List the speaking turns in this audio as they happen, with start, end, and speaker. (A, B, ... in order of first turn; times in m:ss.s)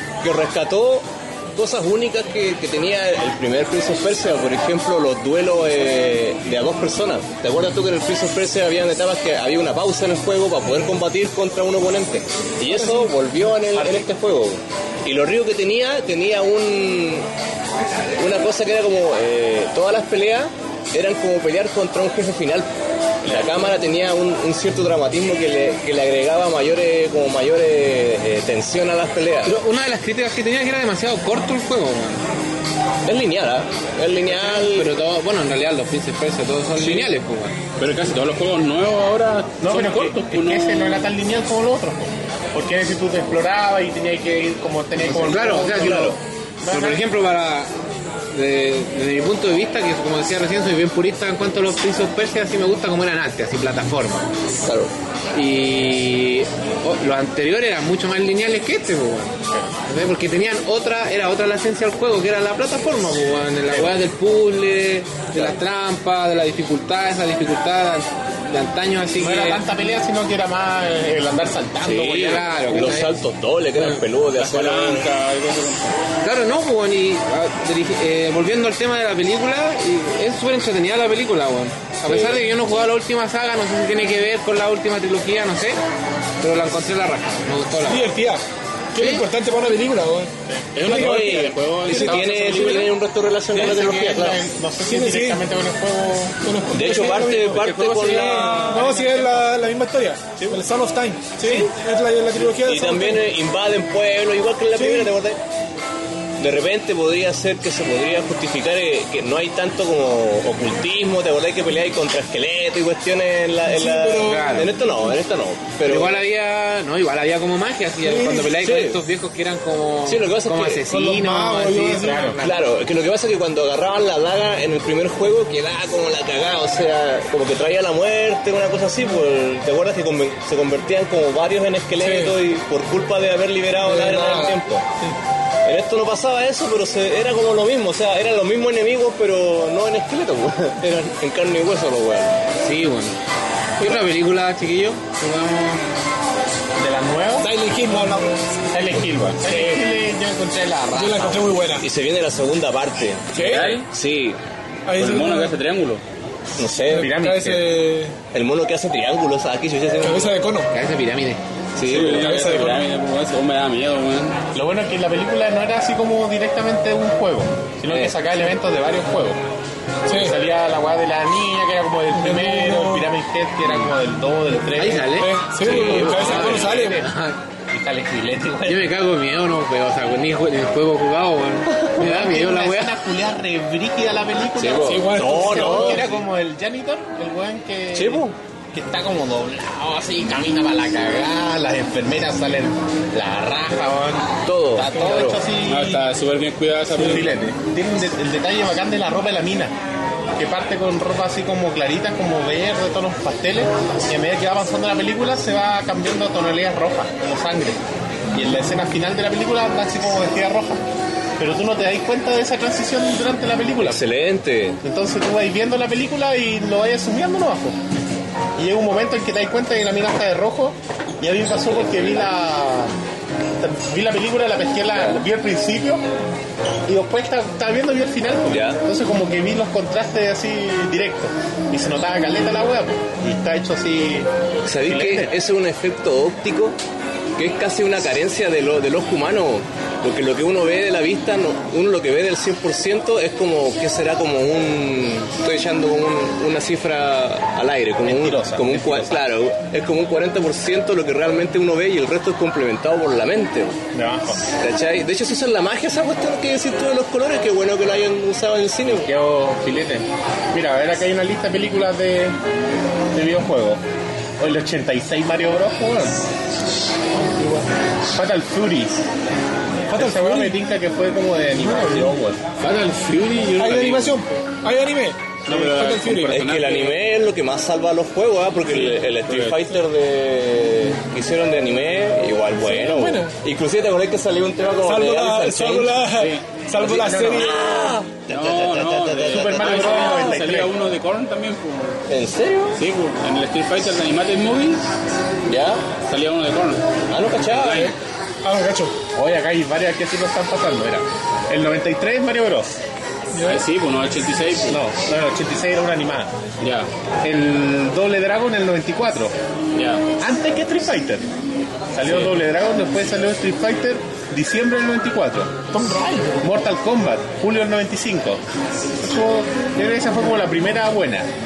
0:00.2-0:17.3 A
0:12.7-0:13.1 B
0:13.7-0:14.1 C
0:18.2-0:22.7 A
0:23.2-0:29.6 A
0:29.4-0:32.2 D
0:33.0-0:34.9 A
0:34.3-0:37.6 D
0:36.8-0:37.1 A
0:37.8-0:41.0 E
0:39.6-0:47.0 C
0:45.1-0:47.7 D
0:45.1-0:46.2 A
0:48.3-0:54.3 D
0:54.6-0:54.9 A
0:55.3-1:09.6 D
1:03.7-1:04.0 C
1:09.2-1:12.8 C
1:11.8-1:15.1 A
1:11.9-1:13.2 D
1:13.8-1:14.0 D
1:14.4-1:16.0 E
1:16.2-1:25.8 D
1:22.0-1:22.4 A
1:26.4-1:28.1 D
1:27.8-1:28.4 B
1:28.9-1:32.8 B
1:29.0-1:29.2 D
1:30.7-1:32.9 E
1:30.9-1:34.4 A
1:33.5-1:36.3 C
1:34.8-1:35.4 B
1:36.4-1:43.2 B
1:36.7-1:39.0 A
1:37.5-1:38.8 E
1:38.8-1:39.2 C
1:41.4-1:41.7 A
1:42.4-1:45.4 A
1:44.7-1:45.1 B
1:46.4-1:56.1 A
1:53.6-1:54.7 B
1:54.2-1:54.7 D
1:55.8-2:02.6 D
1:58.0-1:58.5 B
1:58.5-1:59.0 A
2:00.0-2:00.9 A
2:00.9-2:02.4 B
2:02.0-2:02.4 C
2:02.4-2:14.8 A
2:12.0-2:12.4 B
2:13.8-2:14.6 B
2:15.6-2:22.4 A
2:22.6-2:23.2 D
2:23.8-2:25.9 D
2:26.8-2:27.5 C
2:27.4-2:28.3 B
2:28.7-2:31.5 C
2:29.4-2:29.9 B
2:30.9-2:31.9 B
2:31.8-2:34.4 A
2:33.3-2:33.8 B
2:33.5-2:33.8 E
2:34.8-2:35.5 B
2:35.0-2:36.0 E
2:36.6-2:37.1 A
2:36.9-2:38.1 B
2:37.0-2:37.8 C
2:38.3-2:40.3 A
2:40.0-2:40.7 B
2:40.7-2:41.4 D
2:41.8-2:42.4 A
2:41.8-2:44.4 E
2:42.0-2:42.9 B
2:44.5-2:49.4 C
2:50.1-2:50.4 B
2:50.1-2:55.2 C
2:52.1-2:53.1 B
2:54.7-2:57.4 D
2:55.2-2:57.0 B
2:55.6-2:56.7 A
2:57.7-2:58.9 C
2:58.6-3:02.9 D
3:02.0-3:16.0 C
3:04.6-3:06.1 A
3:04.7-3:06.1 B
3:07.9-3:08.3 A
3:14.4-3:15.4 A
3:15.6-3:17.4 E
3:16.9-3:19.7 C
3:20.4-3:27.8 C
3:28.3-3:30.8 C
3:31.4-3:34.0 C
3:33.8-3:34.8 A
3:34.8-3:37.8 C
3:38.6-3:42.9 C
3:41.7-3:42.2 A
3:43.6-3:46.0 C
3:44.9-3:45.2 A
3:46.9-3:55.3 C
3:48.5-3:48.8 A
3:54.6-3:56.8 A
3:57.4-4:13.8 A
4:08.0-4:09.2 C
4:13.9-4:14.4 C
4:14.5-4:19.1 A
4:18.8-4:22.4 C
4:23.1-4:23.8 C
4:24.4-4:26.2 C
4:27.2-4:27.7 B
4:28.1-4:29.0 C
4:29.9-4:30.6 B
4:29.9-4:32.4 C
4:31.6-4:32.1 B
4:32.6-4:34.2 E
4:33.5-4:36.4 B
4:35.4-4:37.0 E
4:36.2-4:46.0 A
4:38.7-4:39.6 E
4:42.6-4:43.4 B
4:44.8-4:47.6 B
4:46.1-4:46.4 E
4:46.8-4:47.5 C
4:46.9-4:50.4 A
4:48.3-4:52.0 E
4:49.3-4:50.7 C
4:52.1-4:52.8 A
4:52.8-4:54.8 E
4:55.5-4:55.8 A
4:56.0-4:56.8 E
4:57.1-4:57.9 A
4:57.4-4:58.0 E
4:58.4-4:58.9 B
4:59.1-5:02.7 C
5:03.3-5:03.6 B
5:03.4-5:04.8 E
5:04.7-5:06.3 C
5:06.6-5:06.9 E
5:07.2-5:09.3 C
5:09.7-5:10.0 E
5:10.2-5:11.3 C
5:11.9-5:15.5 C
5:12.0-5:12.4 E
5:15.7-5:16.4 B
5:16.4-5:18.4 C
5:19.0-5:21.3 C